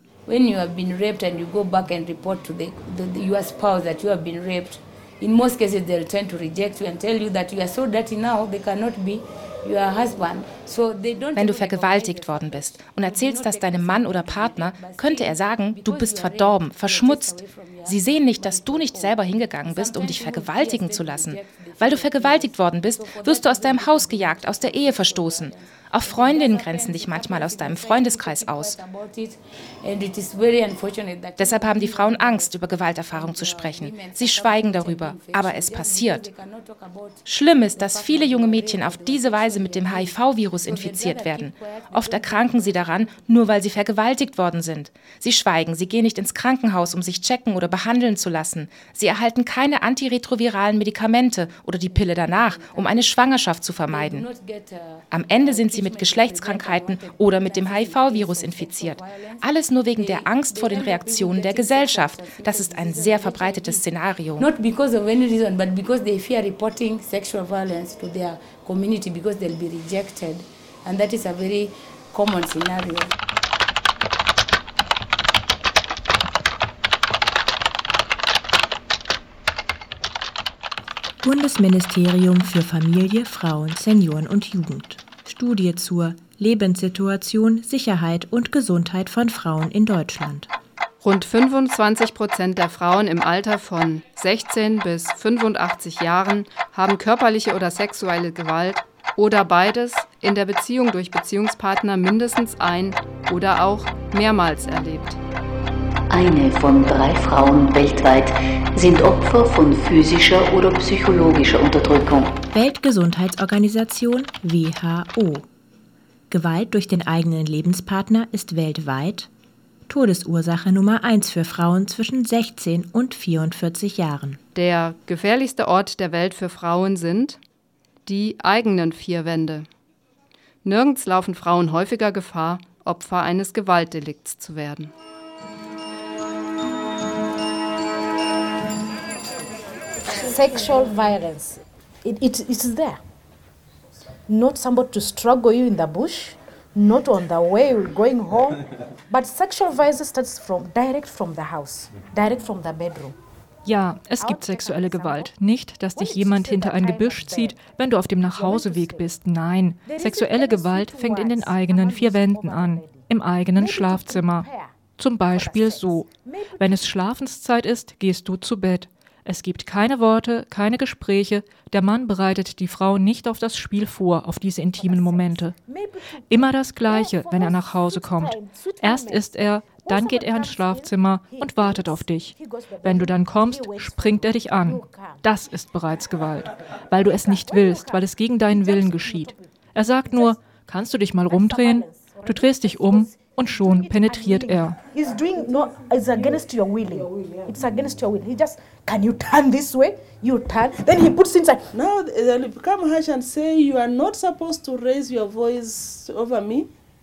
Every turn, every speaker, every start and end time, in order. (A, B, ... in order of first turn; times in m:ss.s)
0:00.3-0:43.2 A
0:11.4-0:28.8 B
0:31.4-0:36.3 B
0:37.2-0:54.3 B
0:51.9-0:53.2 A
0:53.9-1:03.9 A
0:55.1-1:04.5 B
1:04.4-1:13.1 A
1:21.2-1:30.5 C
1:31.0-1:45.2 D
1:46.1-1:52.4 E
1:52.5-1:55.5 C
1:56.3-1:59.3 C
1:59.9-2:04.4 C
2:04.6-2:07.4 D
2:08.1-2:09.7 D
2:10.6-2:14.9 D
2:20.1-2:23.0 F
2:24.3-2:33.1 F
2:33.6-2:55.6 G
2:34.1-2:35.3 F
2:35.9-2:37.6 F
2:38.3-2:39.1 F
2:39.8-2:44.7 F
2:45.3-2:46.7 F
2:54.8-3:05.2 F
2:56.3-3:14.8 G
3:07.1-3:09.4 F
3:11.3-3:21.6 F
3:21.7-3:26.7 H